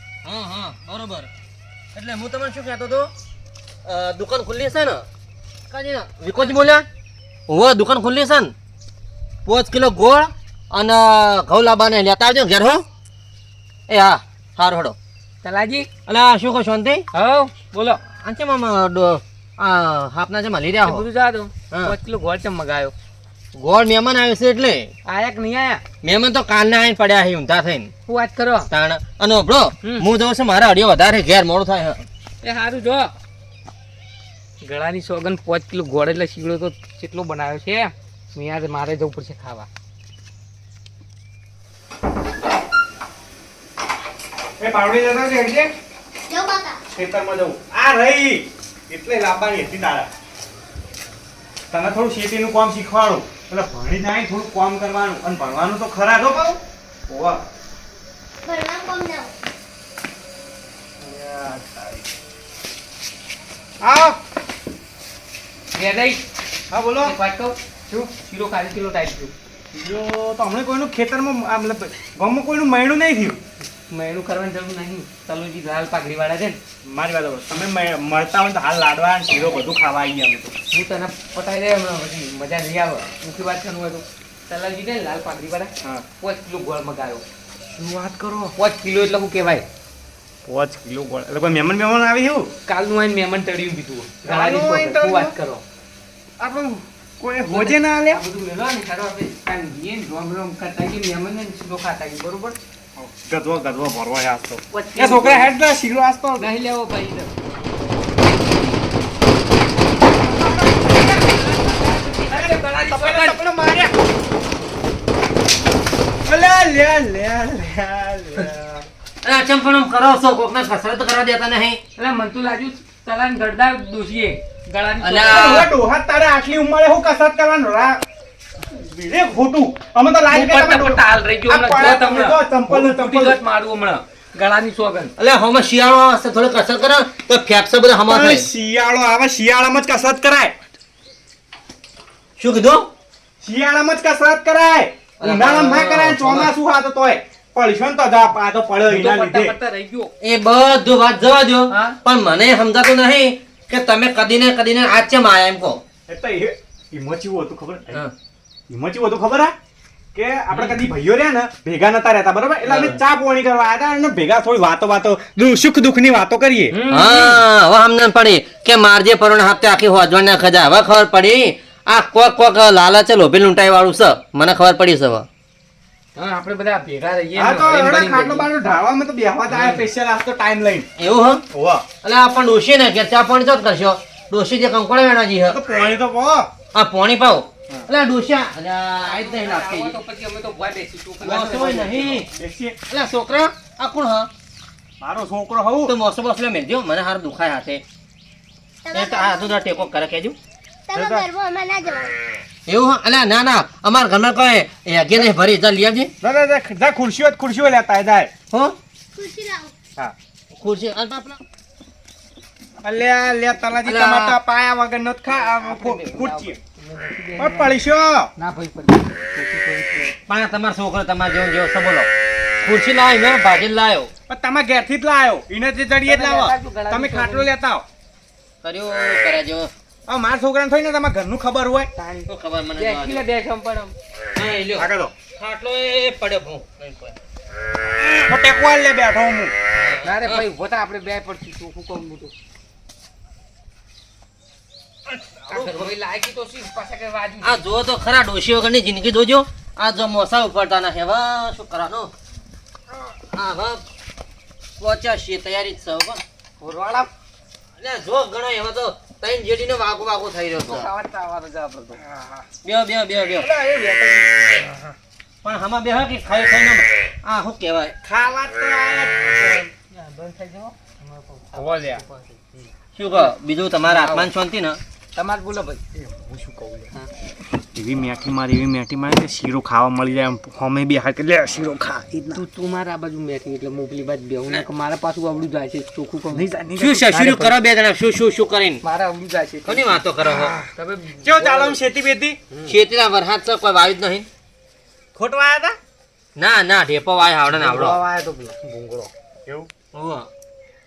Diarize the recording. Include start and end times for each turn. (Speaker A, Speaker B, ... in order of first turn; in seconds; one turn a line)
Speaker A: 0.2-1.3
Speaker A: 1.9-3.1
Speaker A: 3.9-5.0
Speaker A: 5.7-6.9
Speaker A: 7.5-8.5
Speaker A: 9.4-12.8
Speaker A: 13.9-14.9
Speaker B: 15.4-15.9
Speaker A: 16.1-17.1
Speaker B: 17.1-18.0
Speaker A: 18.2-21.0
Speaker B: 20.8-22.9
Speaker A: 23.6-24.9
Speaker B: 25.1-25.8
Speaker A: 26.0-27.9
Speaker B: 28.1-28.7
Speaker A: 28.7-32.1
Speaker B: 32.4-33.1
Speaker B: 34.6-39.7
Speaker C: 44.6-45.7
Speaker D: 46.3-46.8
Speaker C: 46.9-50.1
Speaker C: 51.7-57.4
Speaker D: 58.4-59.3
Speaker C: 61.0-62.1
Speaker C: 63.8-64.2
Speaker B: 65.7-66.2
Speaker C: 66.7-67.1
Speaker B: 67.0-67.6
Speaker B: 68.2-69.3
Speaker C: 69.7-73.4
Speaker B: 73.9-76.6
Speaker C: 76.8-80.5
Speaker B: 80.7-87.2
Speaker C: 87.8-88.5
Speaker B: 88.6-89.7
Speaker C: 90.5-92.5
Speaker B: 92.7-95.6
Speaker C: 94.2-95.3
Speaker C: 96.4-98.2
Speaker B: 97.5-102.6
Speaker C: 103.0-106.5
Speaker B: 104.7-105.5
Speaker B: 106.4-107.3
Speaker B: 108.2-108.8
Speaker C: 110.4-110.8
Speaker B: 110.5-113.4
Speaker C: 112.3-114.0
Speaker C: 116.3-118.9
Speaker A: 119.2-121.8
Speaker B: 122.0-125.5
Speaker A: 125.0-125.7
Speaker C: 125.3-128.0
Speaker C: 128.7-133.4
Speaker B: 130.3-135.1
Speaker A: 135.2-138.5
Speaker C: 138.1-140.6
Speaker A: 142.4-142.9
Speaker C: 143.4-149.6
Speaker A: 145.2-146.5
Speaker B: 148.9-150.1
Speaker A: 150.2-155.8
Speaker B: 151.7-152.0
Speaker C: 156.1-158.0
Speaker C: 158.7-159.6
Speaker C: 160.1-166.8
Speaker A: 162.7-163.0
Speaker B: 166.7-167.4
Speaker A: 166.9-175.3
Speaker B: 176.2-178.5
Speaker C: 177.3-180.9
Speaker A: 179.5-179.8
Speaker A: 181.0-181.4
Speaker C: 181.5-181.8
Speaker A: 182.0-185.6
Speaker C: 185.5-186.5
Speaker A: 186.7-189.9
Speaker B: 189.0-192.2
Speaker A: 191.2-192.3
Speaker C: 192.2-192.8
Speaker A: 192.9-194.3
Speaker C: 195.0-195.9
Speaker A: 195.8-197.8
Speaker D: 198.8-199.9
Speaker A: 198.9-200.4
Speaker D: 200.9-202.2
Speaker C: 200.9-201.3
Speaker A: 202.7-206.1
Speaker C: 206.2-208.3
Speaker A: 208.5-208.8
Speaker D: 209.2-209.7
Speaker A: 210.6-211.4
Speaker C: 212.8-216.6
Speaker A: 213.8-214.4
Speaker B: 215.3-217.8
Speaker C: 217.4-218.3
Speaker B: 218.4-220.2
Speaker A: 220.3-222.1
Speaker A: 222.6-224.1
Speaker C: 224.3-227.8
Speaker B: 226.1-227.5
Speaker A: 228.6-229.7
Speaker C: 230.1-231.9
Speaker B: 232.0-233.9
Speaker A: 232.3-233.2
Speaker A: 234.4-237.2
Speaker C: 234.8-235.1
Speaker C: 238.2-239.5
Speaker A: 239.8-240.4
Speaker B: 240.0-242.3
Speaker A: 245.1-245.9
Speaker B: 245.5-247.6
Speaker A: 247.4-252.1
Speaker A: 253.3-253.8
Speaker A: 254.8-256.2
Speaker B: 256.6-257.1
Speaker A: 257.8-260.9
Speaker B: 260.6-262.0
Speaker C: 262.0-262.5
Speaker A: 262.6-263.5
Speaker C: 263.4-264.9
Speaker A: 265.4-267.9
Speaker C: 268.0-269.7
Speaker B: 269.9-272.4
Speaker C: 271.6-272.0
Speaker A: 273.0-274.8
Speaker B: 273.8-274.3
Speaker B: 275.1-275.8
Speaker C: 275.9-276.9
Speaker C: 277.8-282.4
Speaker B: 282.4-286.5
Speaker C: 286.3-287.6
Speaker A: 286.8-288.8
Speaker B: 288.8-290.0
Speaker A: 289.6-290.6
Speaker C: 290.2-290.7
Speaker B: 290.7-291.8
Speaker C: 291.2-292.4
Speaker A: 292.7-294.3
Speaker C: 295.1-295.8
Speaker A: 296.4-298.0
Speaker B: 297.7-298.4
Speaker C: 297.9-299.7
Speaker A: 299.9-300.3